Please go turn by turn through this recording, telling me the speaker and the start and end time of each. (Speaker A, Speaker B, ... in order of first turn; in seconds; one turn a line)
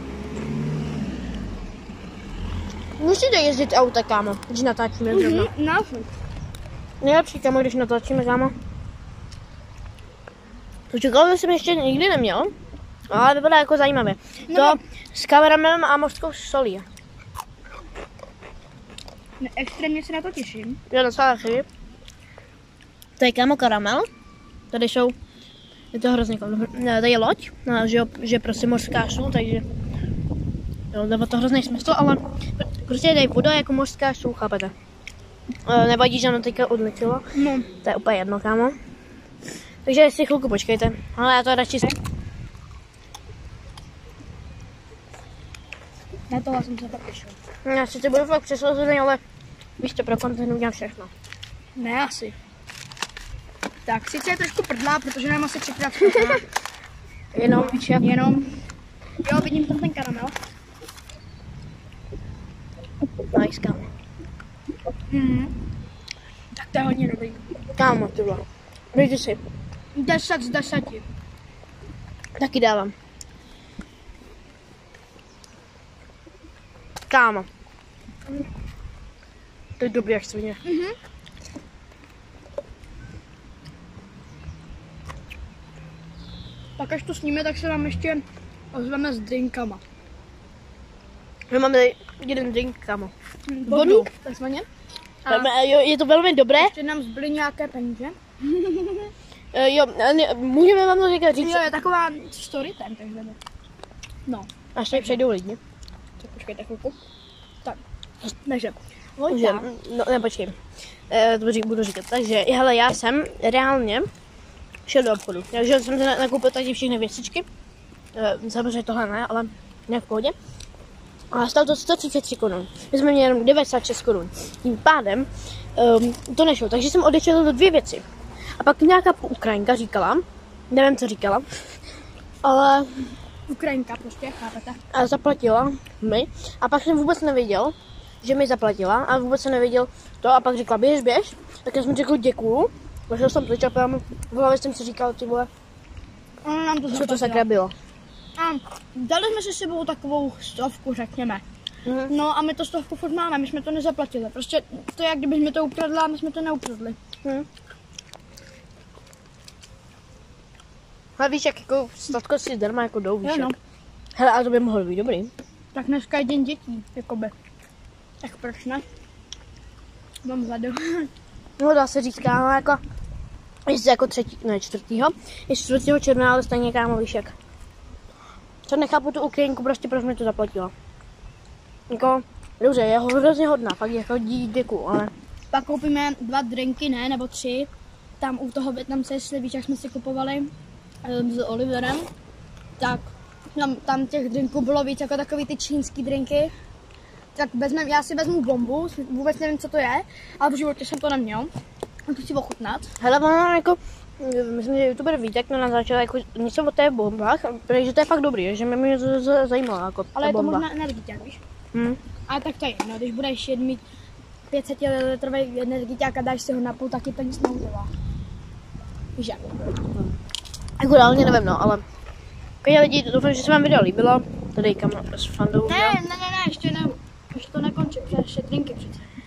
Speaker A: 3.0-5.5
Speaker B: 5.1-6.1
Speaker A: 7.0-8.5
Speaker A: 10.9-12.5
Speaker A: 13.1-16.9
Speaker B: 14.5-14.8
Speaker B: 19.4-20.8
Speaker A: 20.9-21.6
Speaker A: 23.2-24.1
Speaker A: 24.7-25.1
Speaker A: 25.9-29.6
Speaker A: 30.9-34.7
Speaker A: 35.6-37.2
Speaker B: 37.4-37.7
Speaker A: 37.8-38.7
Speaker A: 39.9-42.0
Speaker B: 46.3-47.4
Speaker A: 47.6-49.2
Speaker A: 49.8-51.1
Speaker B: 51.8-52.3
Speaker B: 53.9-56.4
Speaker A: 56.0-56.4
Speaker A: 57.3-58.1
Speaker B: 57.4-58.5
Speaker B: 59.2-60.3
Speaker A: 63.3-63.8
Speaker B: 65.1-65.6
Speaker B: 66.5-67.4
Speaker A: 67.8-69.4
Speaker B: 69.9-71.0
Speaker A: 72.4-72.9
Speaker A: 77.1-77.5
Speaker A: 79.8-80.6
Speaker B: 80.6-81.0
Speaker B: 86.8-89.8
Speaker A: 91.5-93.1
Speaker B: 93.5-94.7
Speaker A: 93.7-94.1
Speaker B: 95.2-95.5
Speaker A: 95.3-96.7
Speaker B: 96.6-99.1
Speaker A: 99.5-101.6
Speaker B: 101.4-103.4
Speaker B: 104.3-105.2
Speaker A: 104.7-105.6
Speaker B: 106.2-107.0
Speaker B: 107.6-109.7
Speaker A: 109.3-110.5
Speaker A: 111.1-114.1
Speaker A: 114.9-117.5
Speaker A: 118.1-120.3
Speaker A: 121.3-128.0
Speaker A: 128.6-131.4
Speaker A: 132.4-132.9
Speaker B: 133.5-134.8
Speaker A: 134.9-145.5
Speaker B: 146.4-147.4
Speaker A: 146.9-147.7
Speaker B: 148.4-151.4
Speaker A: 151.8-152.1
Speaker B: 152.1-157.0
Speaker A: 161.2-163.6
Speaker B: 163.2-163.5
Speaker A: 164.2-165.3
Speaker B: 165.7-167.3
Speaker B: 168.2-168.8
Speaker B: 170.2-171.1
Speaker A: 171.6-172.8
Speaker A: 173.7-177.3
Speaker A: 178.7-180.7
Speaker A: 181.9-185.1
Speaker B: 185.5-187.7
Speaker B: 188.2-190.5
Speaker B: 191.0-192.1
Speaker B: 192.8-196.5
Speaker B: 197.3-201.5
Speaker B: 202.1-202.9
Speaker A: 203.0-210.6
Speaker B: 210.1-211.4
Speaker A: 211.7-212.0
Speaker B: 212.3-213.8
Speaker B: 214.5-217.9
Speaker B: 219.2-219.4
Speaker A: 220.8-221.8
Speaker A: 222.6-226.0
Speaker B: 225.7-229.1